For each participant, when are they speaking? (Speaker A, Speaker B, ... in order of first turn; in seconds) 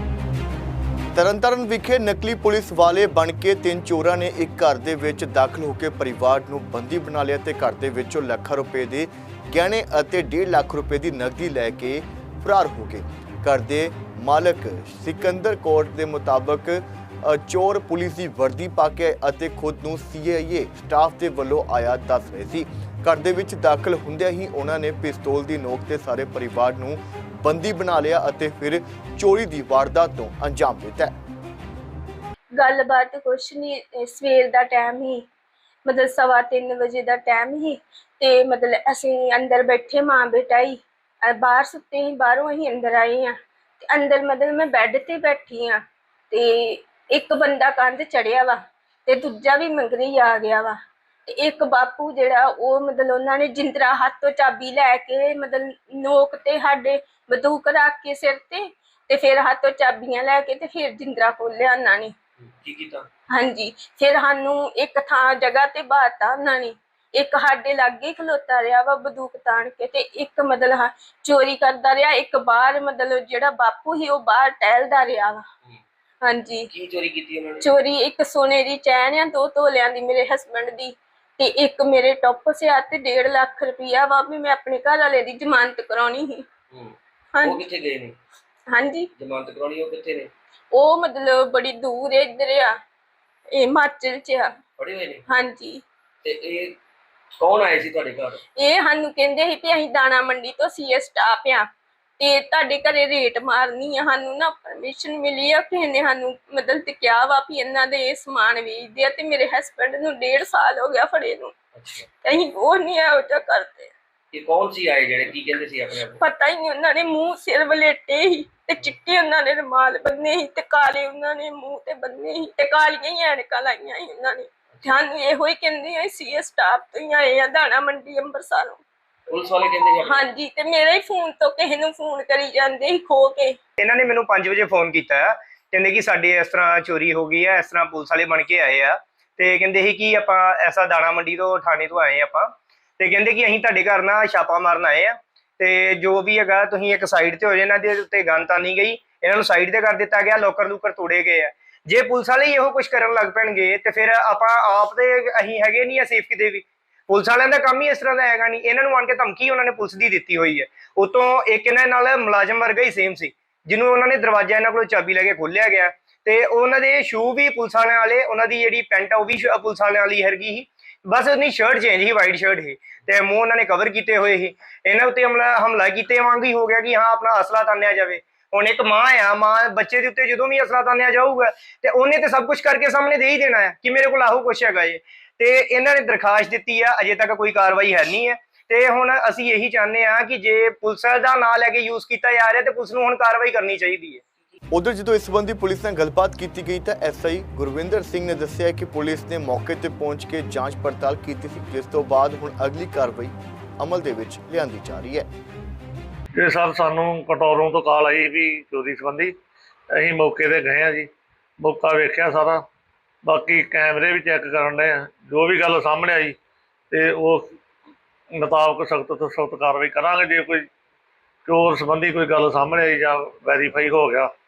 Speaker A: 1.1-31.1, 194.7-205.3
Speaker B: 32.6-35.2, 35.9-45.8, 46.3-50.8, 51.3-62.1, 63.3-75.4, 76.2-76.7, 77.6-86.5, 87.3-87.6, 88.7-89.1, 90.7-92.7, 93.5-94.5, 95.3-95.8, 98.6-101.7, 102.2-111.5, 112.2-113.9, 116.1-128.8, 130.0-133.6
Speaker C: 62.4-63.1, 76.7-77.7, 86.7-88.2, 89.2-90.3, 94.8-95.2, 96.2-96.8, 97.4-98.4, 111.7-112.1, 114.3-116.2, 129.3-130.2
Speaker D: 133.8-194.2
Speaker E: 206.3-209.3, 209.9-212.6, 213.2-216.4, 216.9-217.5, 218.3-220.7, 221.4-224.3